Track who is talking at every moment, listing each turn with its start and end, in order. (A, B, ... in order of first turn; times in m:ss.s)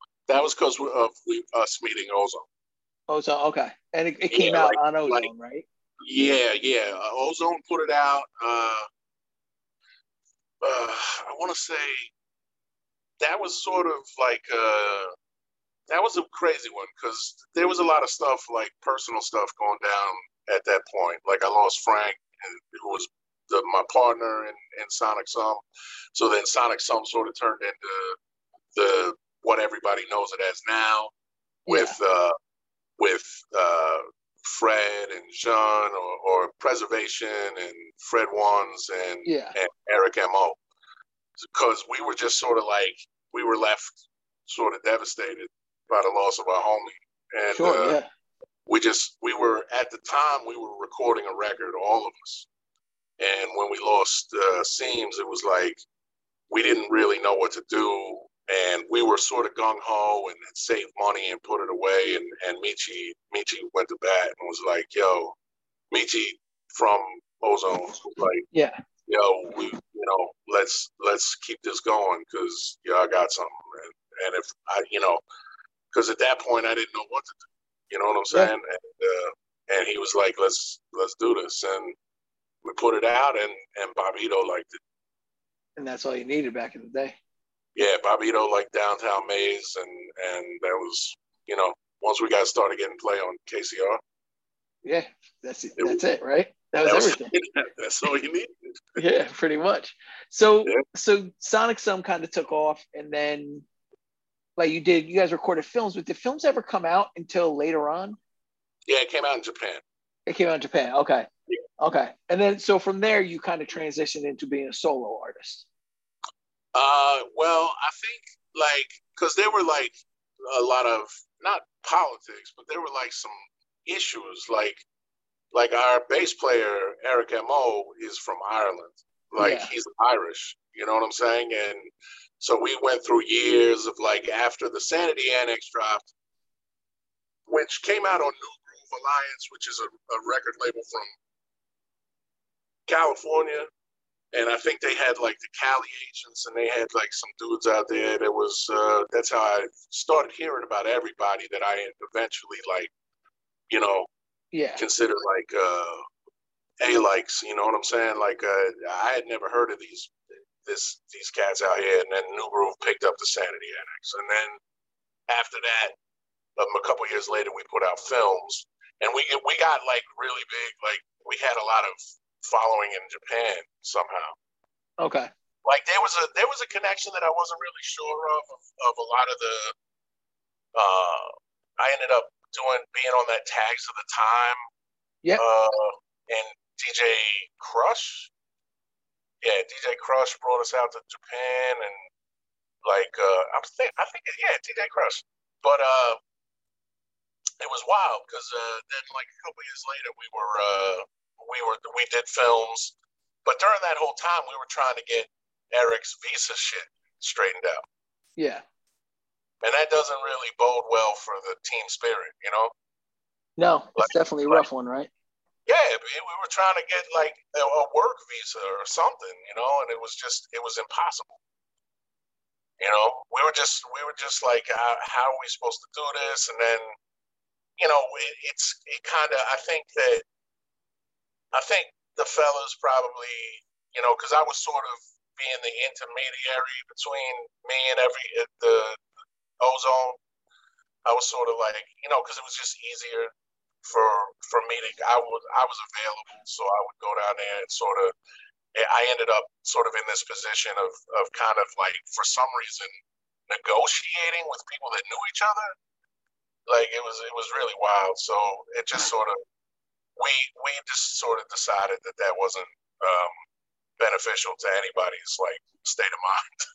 0:00.3-0:02.4 A
0:03.1-0:05.6 B
0:04.3-0:05.3 A
0:06.0-0:08.8 A
0:10.6-0:12.1 A
0:13.2-0:15.1 A
0:15.9-0:25.6 A
0:26.1-0:28.2 A
0:28.7-0:31.1 A
0:31.7-0:32.0 B
0:31.7-0:32.3 A
0:33.0-0:40.6 A
0:39.2-0:39.5 B
0:41.4-0:48.0 A
0:47.6-0:48.0 B
0:48.7-0:52.5 A
0:53.2-0:55.8 A
0:56.5-1:05.3 A
1:05.9-1:08.4 A
1:08.5-1:08.8 B
1:09.1-1:15.2 A
1:15.9-1:21.9 A
1:22.6-1:24.8 A
1:25.8-1:27.1 B
1:27.8-1:34.0 A
1:34.8-1:37.3 B
1:36.8-1:39.0 A
1:39.0-1:43.6 B
1:44.6-1:48.2 B
1:48.9-1:49.8 A
1:50.3-1:51.3 B
1:51.8-1:55.6 B
1:56.7-2:04.8 A
2:05.5-2:16.1 A
2:09.4-2:09.7 B
2:17.5-2:21.1 A
2:22.9-2:23.7 A
2:24.3-2:32.9 A
2:33.7-2:34.1 A
2:34.5-2:34.8 B
2:34.8-2:36.0 A
2:36.8-2:40.1 A
2:40.6-2:44.6 A
2:45.3-2:45.9 A
2:46.6-2:54.3 A
2:55.0-2:55.3 B
2:55.6-2:59.7 A
3:00.7-3:04.6 A
3:05.4-3:08.3 A
3:09.4-3:11.9 A
3:12.8-3:16.2 A
3:17.6-3:22.9 A
3:23.4-3:27.8 A
3:28.4-3:28.6 B
3:29.6-3:32.7 A
3:33.6-3:35.1 B
3:34.0-3:34.6 A
3:35.7-3:41.4 A
3:42.8-3:46.9 A
3:47.8-3:50.2 A
3:51.5-3:59.0 A
3:59.6-4:00.2 A
4:01.0-4:03.3 A
4:03.8-4:08.1 A
4:08.7-4:12.9 A
4:13.5-4:15.7 A
4:16.7-4:19.4 A
4:20.2-4:23.3 A
4:24.0-4:26.5 A